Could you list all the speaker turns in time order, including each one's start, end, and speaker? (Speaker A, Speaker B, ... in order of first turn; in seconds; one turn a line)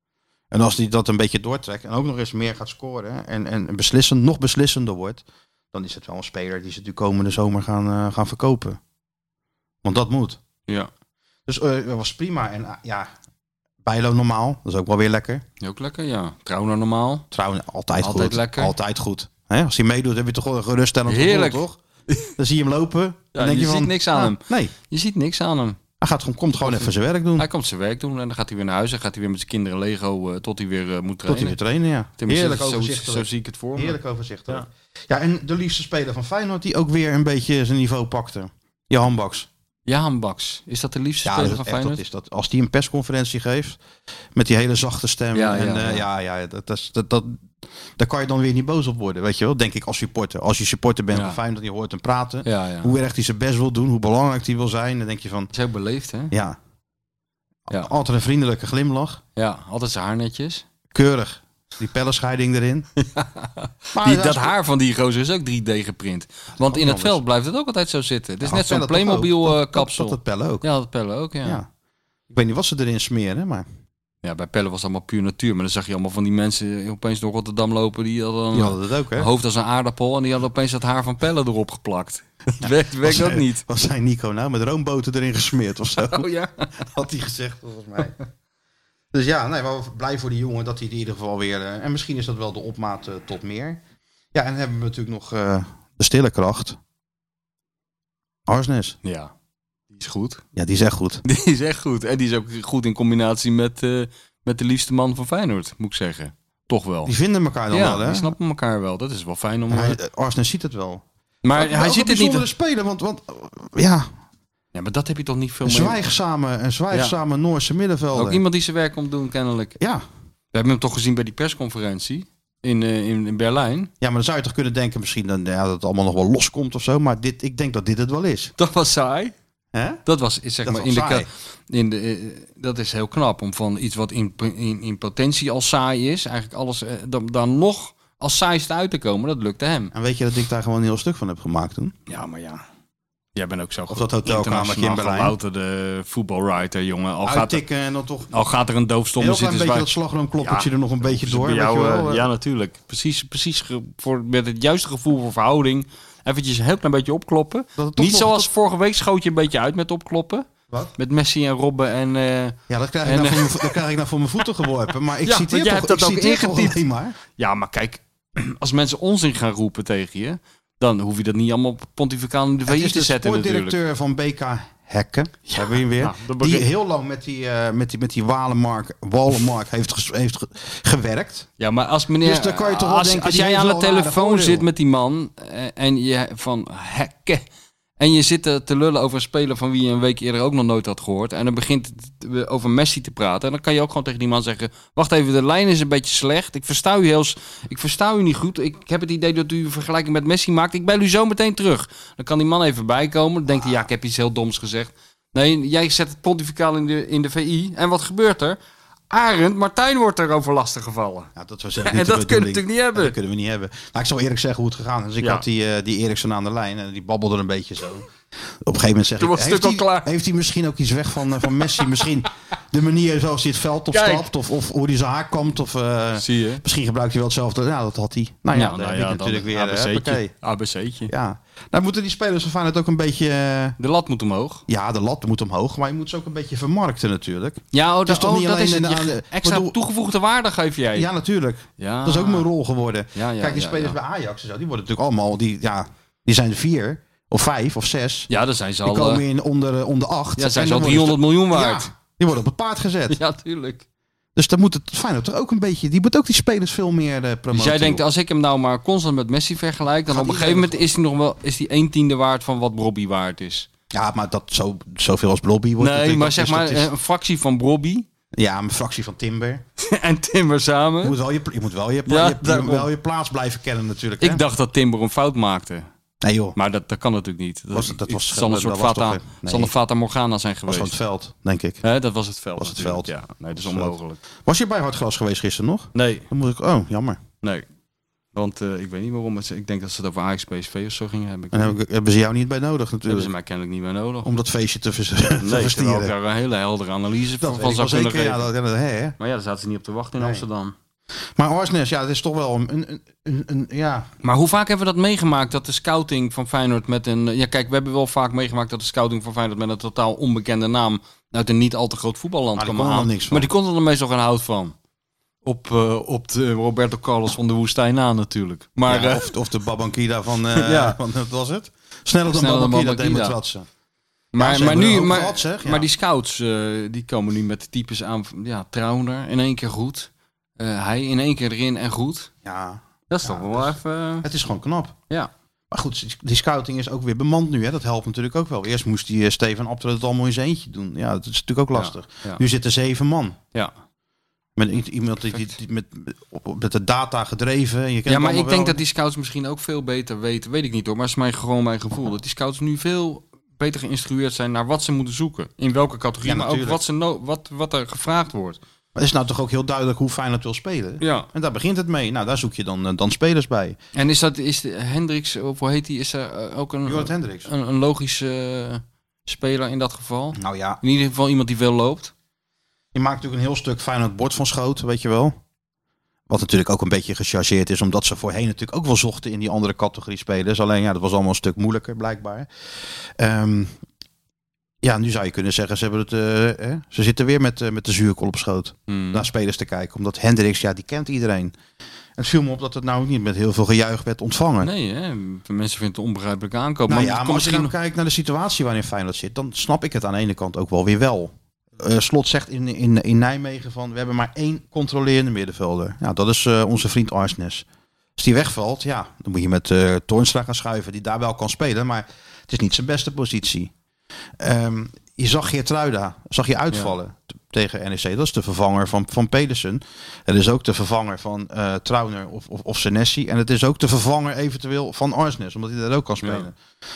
Speaker A: 0.5-8.8
Speaker A: 9.8-10.4
Speaker A: 11.5-13.1
Speaker A: 13.8-15.4
Speaker B: 15.6-17.2
Speaker A: 17.3-21.8
Speaker B: 18.0-18.7
Speaker B: 21.1-22.3
Speaker A: 22.4-24.7
Speaker B: 23.3-25.8
Speaker A: 26.0-27.5
Speaker B: 26.6-31.6
Speaker A: 31.2-39.5
Speaker B: 32.2-34.0
Speaker B: 39.9-42.0
Speaker A: 41.2-43.8
Speaker A: 44.3-55.5
Speaker B: 45.3-46.0
Speaker B: 51.1-51.4
Speaker B: 52.4-52.9
Speaker B: 55.5-56.3
Speaker A: 56.3-56.6
Speaker A: 57.7-59.2
Speaker B: 59.4-60.6
Speaker A: 60.9-62.9
Speaker B: 63.0-71.6
Speaker A: 63.9-64.5
Speaker A: 66.6-67.2
Speaker A: 68.4-70.7
Speaker A: 72.3-73.7
Speaker B: 74.2-83.6
Speaker A: 78.5-79.3
Speaker A: 82.6-88.2
Speaker B: 86.0-86.7
Speaker A: 89.1-93.8
Speaker A: 94.3-96.8
Speaker A: 98.5-99.0
Speaker B: 99.0-99.3
Speaker B: 99.9-100.4
Speaker A: 100.5-101.2
Speaker B: 101.2-107.1
Speaker A: 107.0-108.3
Speaker B: 107.7-110.0
Speaker A: 109.7-114.1
Speaker B: 111.4-112.5
Speaker B: 114.7-116.0
Speaker A: 115.6-118.4
Speaker B: 118.1-119.8
Speaker A: 119.8-120.0
Speaker B: 120.5-123.9
Speaker A: 124.0-128.5
Speaker B: 128.6-129.3
Speaker A: 129.7-130.0
Speaker B: 130.0-139.9
Speaker A: 130.6-131.3
Speaker A: 139.9-141.9
Speaker B: 142.1-142.6
Speaker B: 143.3-147.6
Speaker A: 143.9-145.3
Speaker A: 147.2-148.4
Speaker B: 148.3-163.7
Speaker A: 149.2-152.3
Speaker A: 157.8-158.5
Speaker A: 162.7-167.2
Speaker B: 165.2-166.8
Speaker B: 167.4-173.8
Speaker A: 172.7-181.5
Speaker B: 175.5-176.7
Speaker B: 181.6-187.4
Speaker A: 182.2-184.7
Speaker B: 188.0-208.6
Speaker A: 203.5-203.8
Speaker B: 209.1-213.1
Speaker A: 211.3-218.1
Speaker B: 215.2-215.4
Speaker A: 218.6-230.3
Speaker B: 219.2-220.1
Speaker B: 223.9-224.3
Speaker B: 226.2-226.6
Speaker B: 228.5-231.1
Speaker A: 231.1-233.8
Speaker B: 233.8-234.6
Speaker A: 234.7-239.8
Speaker B: 237.7-241.1
Speaker A: 240.9-248.3
Speaker B: 241.8-242.5
Speaker B: 243.1-244.0
Speaker B: 248.3-249.2
Speaker A: 248.8-253.2
Speaker B: 250.4-251.9
Speaker B: 253.1-253.8
Speaker A: 254.3-258.0
Speaker B: 257.5-263.7
Speaker A: 260.1-260.8
Speaker A: 263.9-266.9
Speaker B: 265.8-268.1
Speaker A: 268.3-269.6
Speaker B: 269.8-271.2
Speaker A: 271.0-274.4
Speaker B: 272.1-272.9
Speaker B: 274.2-275.9
Speaker A: 276.2-276.6
Speaker B: 276.6-280.9
Speaker A: 277.7-279.7
Speaker A: 280.7-281.8
Speaker B: 281.8-284.2
Speaker A: 282.6-287.2
Speaker B: 285.9-286.3
Speaker B: 288.3-291.8
Speaker A: 291.5-293.3
Speaker B: 293.1-294.3
Speaker A: 294.2-296.1
Speaker B: 295.4-298.5
Speaker A: 297.4-299.2
Speaker B: 299.2-300.7
Speaker A: 300.2-300.4
Speaker A: 301.4-304.1
Speaker B: 304.2-314.7
Speaker A: 312.6-313.5
Speaker B: 315.4-319.3
Speaker A: 318.9-323.7
Speaker B: 320.5-321.0
Speaker B: 322.3-323.4
Speaker B: 324.3-332.3
Speaker A: 324.4-325.9
Speaker A: 332.4-334.9
Speaker B: 333.1-334.3
Speaker A: 335.7-343.4
Speaker B: 341.7-342.4
Speaker A: 344.6-348.8
Speaker B: 348.1-358.6
Speaker A: 356.2-356.8
Speaker A: 358.9-363.8
Speaker B: 361.0-361.3
Speaker B: 363.9-372.1
Speaker A: 366.9-367.5
Speaker A: 370.4-370.8
Speaker A: 372.9-375.4
Speaker A: 376.3-383.8
Speaker A: 384.8-391.5
Speaker B: 388.9-389.3
Speaker A: 392.2-394.7
Speaker B: 394.6-397.7
Speaker A: 396.9-407.6
Speaker A: 408.2-413.7
Speaker A: 414.4-426.6
Speaker B: 426.2-426.5